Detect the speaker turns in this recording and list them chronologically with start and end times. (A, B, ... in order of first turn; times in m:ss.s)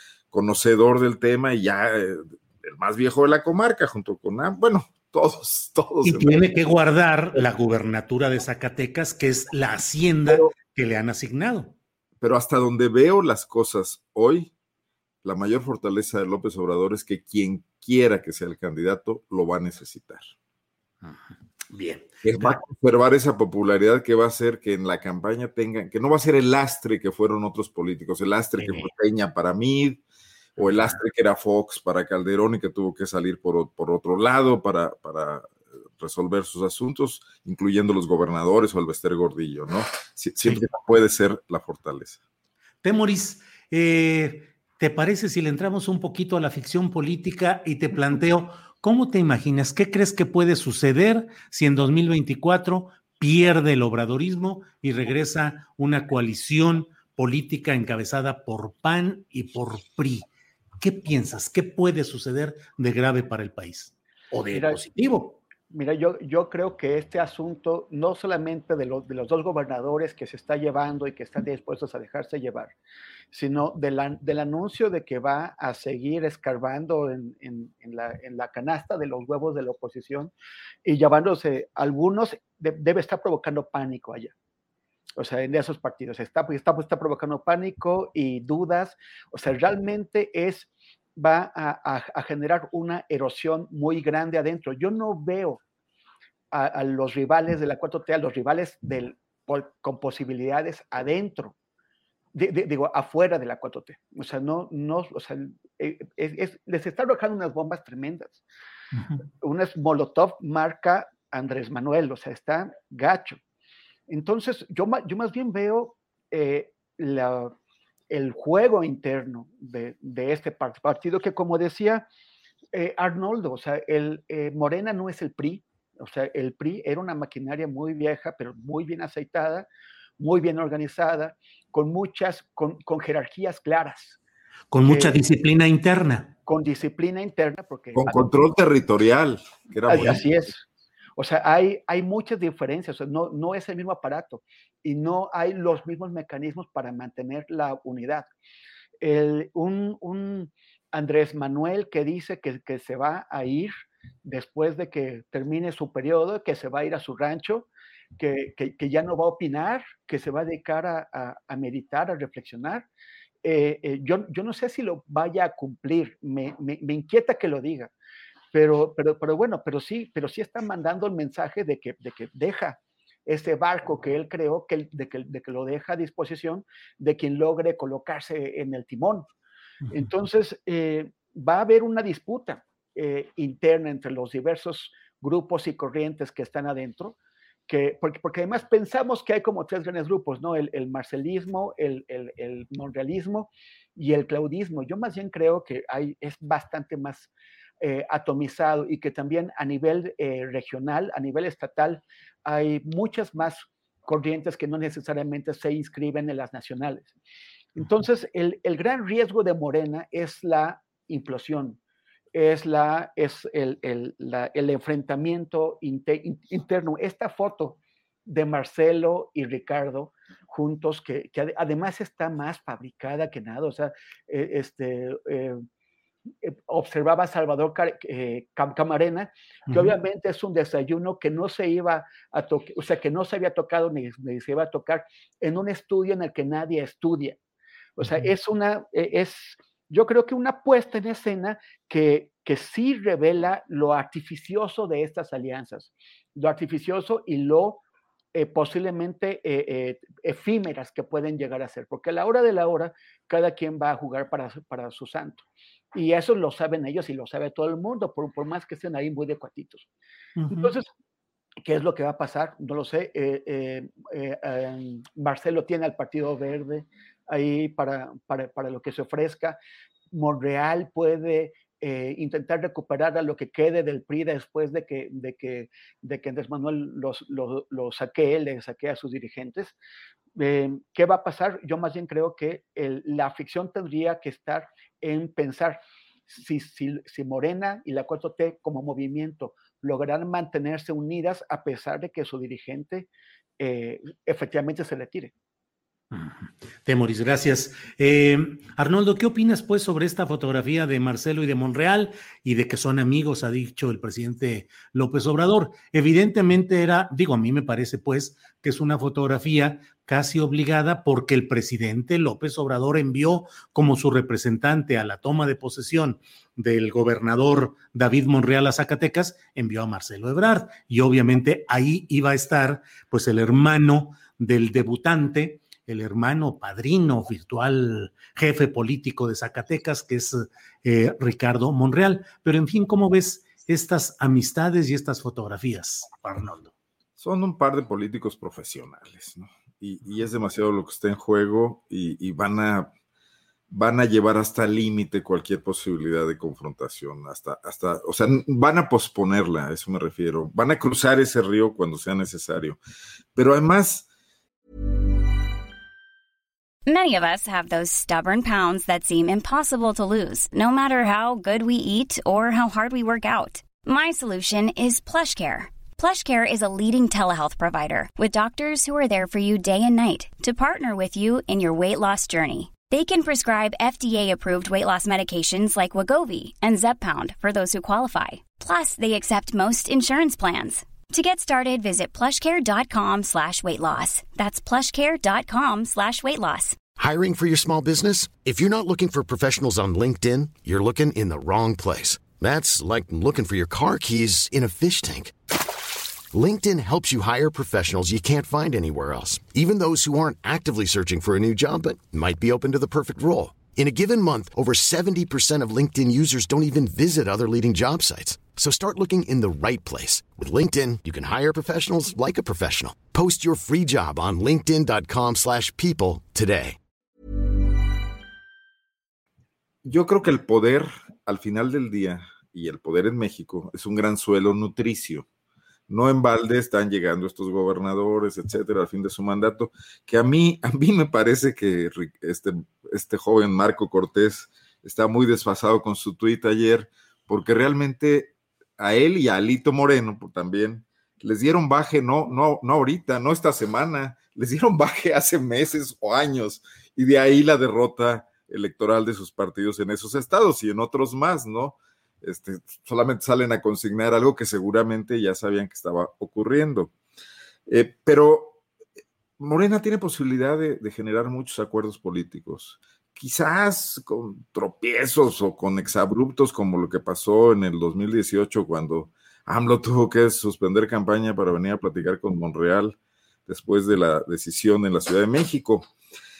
0:00.3-0:06.7 A
0:06.0-0:11.7 B
0:12.2-0:14.5 A
0:15.2-0:20.2 A
0:21.0-0:22.6 B
0:22.2-0:30.0 A
0:28.6-0:28.9 B
0:30.6-0:42.2 A
0:42.8-1:00.3 B
1:00.8-1:05.4 B
1:04.5-1:04.8 C
1:05.7-1:12.7 C
1:13.3-1:20.3 C
1:20.8-1:24.3 C
1:25.2-1:35.6 C
1:36.5-1:41.5 C
1:42.3-1:48.4 C
1:48.9-1:49.2 B
1:49.4-1:53.4 C
1:54.1-1:57.5 C
1:58.1-2:02.1 C
2:02.7-2:09.7 C
2:10.2-2:14.2 C
2:14.7-2:16.3 B
2:14.8-2:15.2 C
2:16.4-2:18.2 C
2:17.9-2:20.2 A
2:19.9-2:20.6 C
2:19.9-2:20.2 B
2:21.2-2:28.3 C
2:29.0-2:33.7 C
2:34.2-2:42.9 C
2:43.4-2:47.9 C
2:48.5-2:59.3 C
2:59.9-3:07.2 C
3:07.7-3:27.1 C
3:27.8-3:31.8 C
3:32.3-3:45.6 C
3:46.4-3:57.4 C
3:49.7-3:49.9 B
3:58.0-4:07.8 C
4:08.3-4:19.9 C
4:20.4-4:20.7 B
4:20.5-4:20.9 C
4:21.6-4:29.6 C
4:30.1-4:39.8 C
4:40.4-4:55.3 C
4:56.1-5:36.7 B
5:37.2-5:42.9 A
5:43.7-5:52.8 A
5:53.3-5:54.0 A
5:56.8-6:26.8 D
6:27.0-6:35.3 E
6:36.3-6:56.8 E
6:59.8-7:05.2 A
7:05.9-7:36.9 A
7:37.7-7:38.6 A
7:39.4-7:55.9 A